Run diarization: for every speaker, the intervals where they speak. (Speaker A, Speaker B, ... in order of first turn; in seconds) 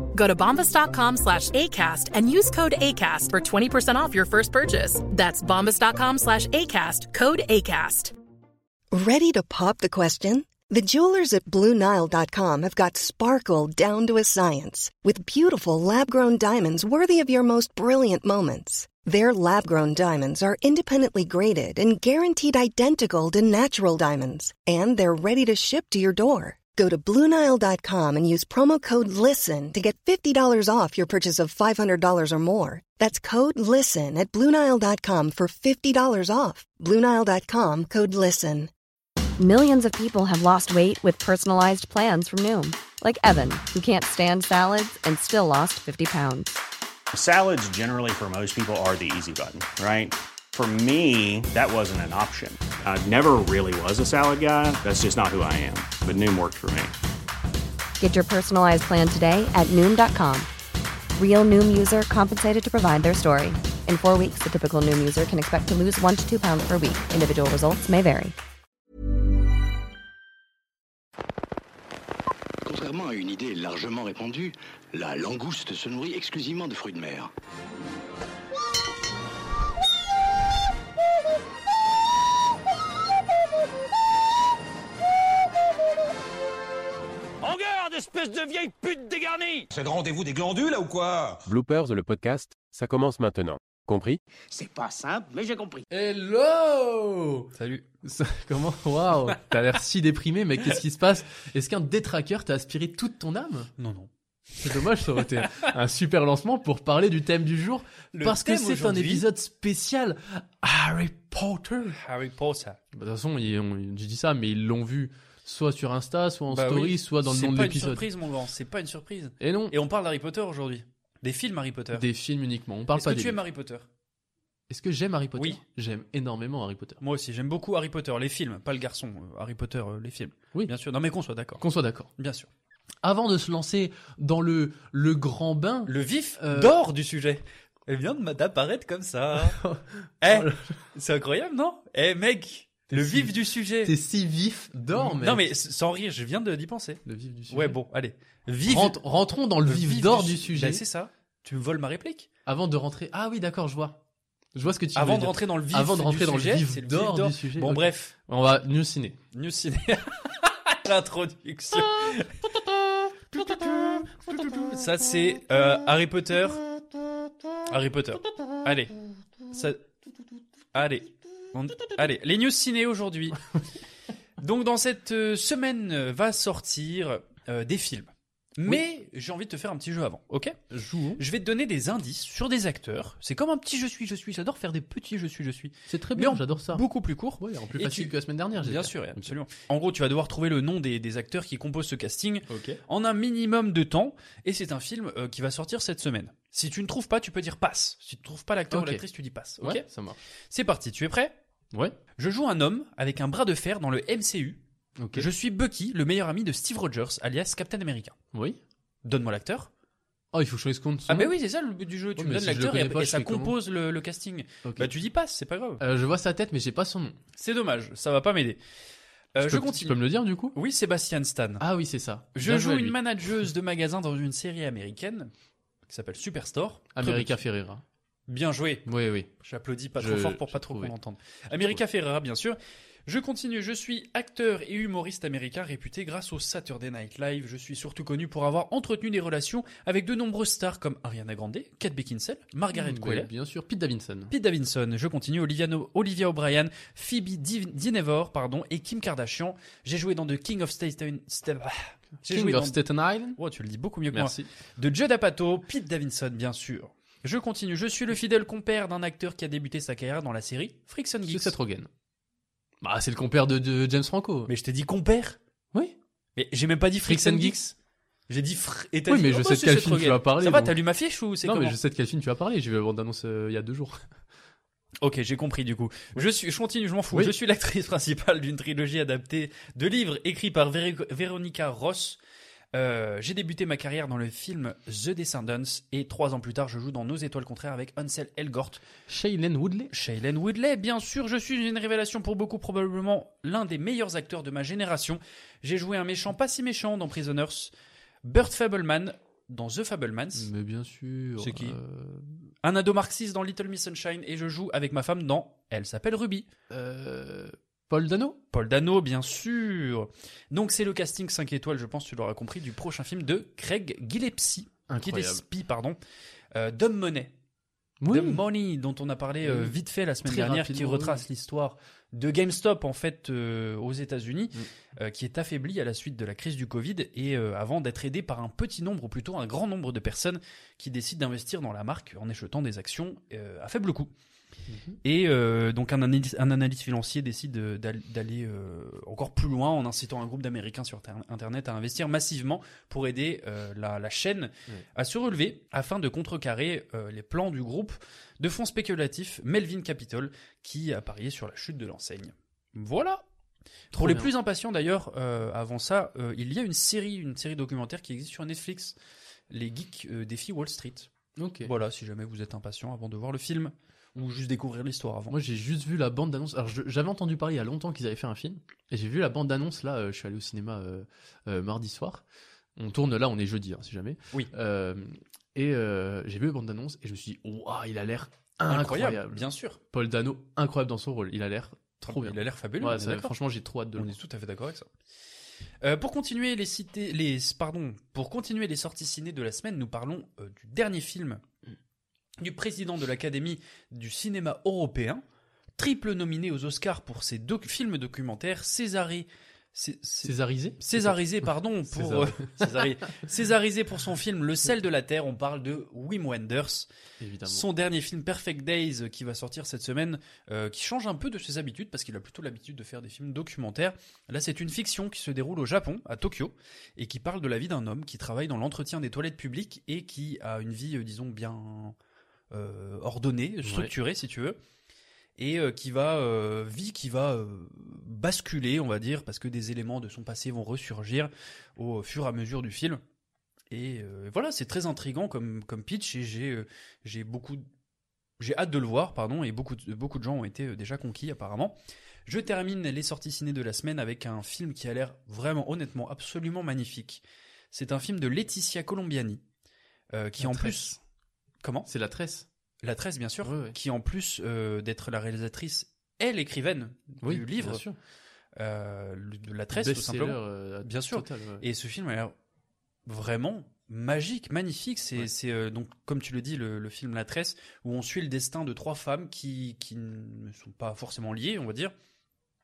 Speaker A: 0.1-8.1
Speaker B: 8.9-38.7
Speaker C: 39.4-46.5, 58.0-60.5, 61.1-68.3
Speaker D: 47.1-56.9
Speaker E: 72.6-77.3
Speaker F: 87.4-91.4
Speaker G: 87.8-89.5, 94.5-95.8
Speaker H: 91.5-94.2
Speaker I: 95.9-97.5, 98.0-103.7, 104.6-112.0, 113.0-118.0, 119.4-119.8, 121.9-123.4, 124.7-127.0, 131.6-132.1, 133.0-136.8, 139.4-140.7, 142.9-143.3, 143.8-145.5, 147.1-147.8, 148.7-150.8, 152.5-154.0, 154.6-159.2, 180.7-181.2, 185.9-186.8, 187.4-189.3, 192.5-192.8, 198.7-199.0, 199.6-200.2, 205.0-205.3, 208.3-208.6, 210.3-211.3, 212.2-213.6, 215.8-217.2, 219.4-220.6, 221.6-223.0, 227.0-227.8, 228.9-229.3, 230.0-230.9, 231.6-231.8, 242.7-244.3, 252.3-253.4, 254.1-254.5, 261.3-261.9, 262.8-264.5, 267.0-267.6, 269.1-270.8, 271.4-274.0, 289.1-289.9, 300.4-302.2, 306.7-308.4, 314.9-315.4, 318.0-318.4, 319.4-321.2, 334.7-335.0, 353.9-354.3, 361.4-361.7, 365.3-372.2, 372.8-384.1, 400.2-402.9, 407.2-407.7, 423.6-423.9, 450.4-451.0, 451.9-452.5, 453.4-453.8, 457.2-458.0, 459.7-461.6
Speaker J: 97.6-97.8, 103.8-104.1, 104.7-105.5, 108.1-109.3, 111.9-112.8, 116.5-122.1, 123.0-123.9, 127.0-131.6, 132.2-132.5, 135.9-139.6, 140.2-143.9, 144.9-149.0, 149.6-152.3, 154.9-158.1, 159.3-162.5, 163.3-166.6, 167.7-169.0, 169.5-169.8, 170.7-173.4, 174.4-180.6, 181.2-199.8, 200.5-201.3, 202.2-204.6, 205.2-208.2, 209.1-209.7, 211.1-215.8, 217.4-218.6, 219.3-220.0, 220.5-221.6, 222.3-225.3, 225.9-227.4, 228.3-228.9, 229.4-243.3, 244.3-252.8, 253.4-261.6, 264.5-265.4, 266.4-267.7, 268.3-271.8, 275.0-282.2, 282.7-288.8, 289.9-297.7, 298.2-300.5, 301.4-301.8, 302.6-306.5, 308.5-316.0, 316.6-317.3, 318.1-334.1, 335.0-353.2, 353.9-359.0, 359.5-361.1, 361.6-365.4, 378.7-379.8, 382.1-383.3, 383.9-384.9, 385.8-391.4, 392.4-395.2, 395.8-406.9, 407.4-422.0, 422.5-424.6, 425.4-433.0, 433.7-437.7, 438.4-449.4, 450.1-451.0, 451.6-451.9, 452.8-457.8, 458.6-462.3, 463.1-471.9